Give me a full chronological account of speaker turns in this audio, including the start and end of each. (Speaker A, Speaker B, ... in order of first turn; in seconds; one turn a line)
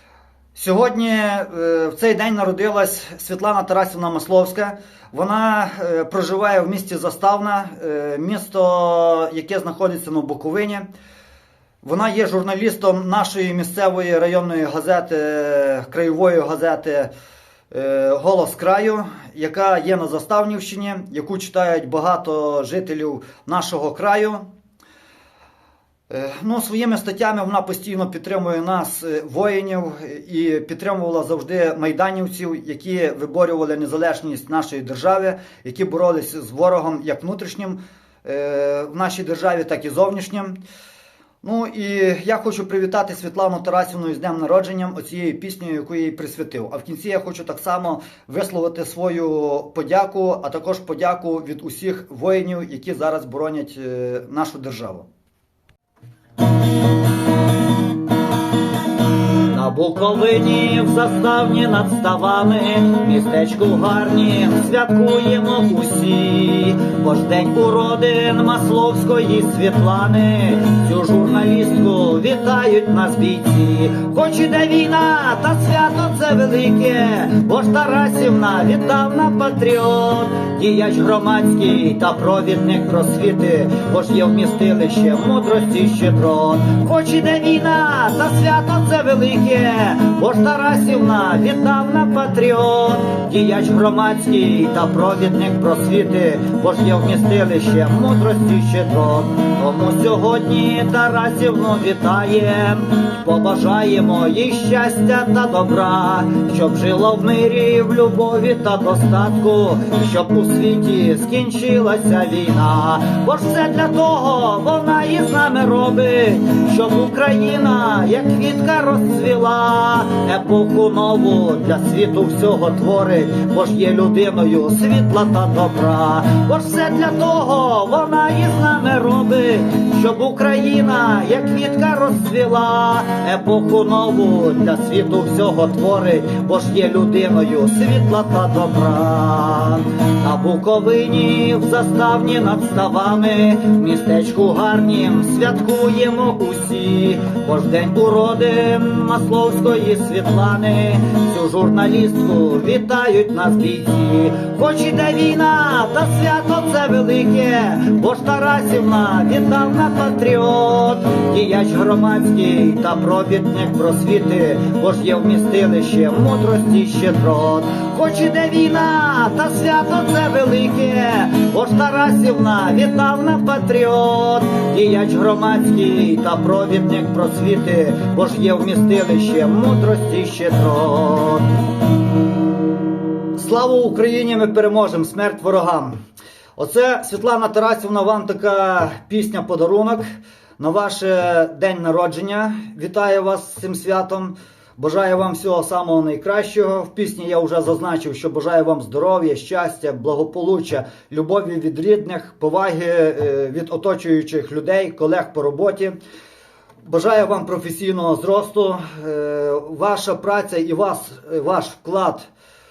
Speaker A: 0.5-10.8
Speaker A: 11.8-17.1
Speaker A: 17.7-24.4
Speaker A: 26.1-40.6
Speaker A: 41.4-55.1
Speaker A: 59.5-181.5
Speaker A: 183.3-186.0
Speaker A: 186.6-205.9
Speaker A: 206.8-212.3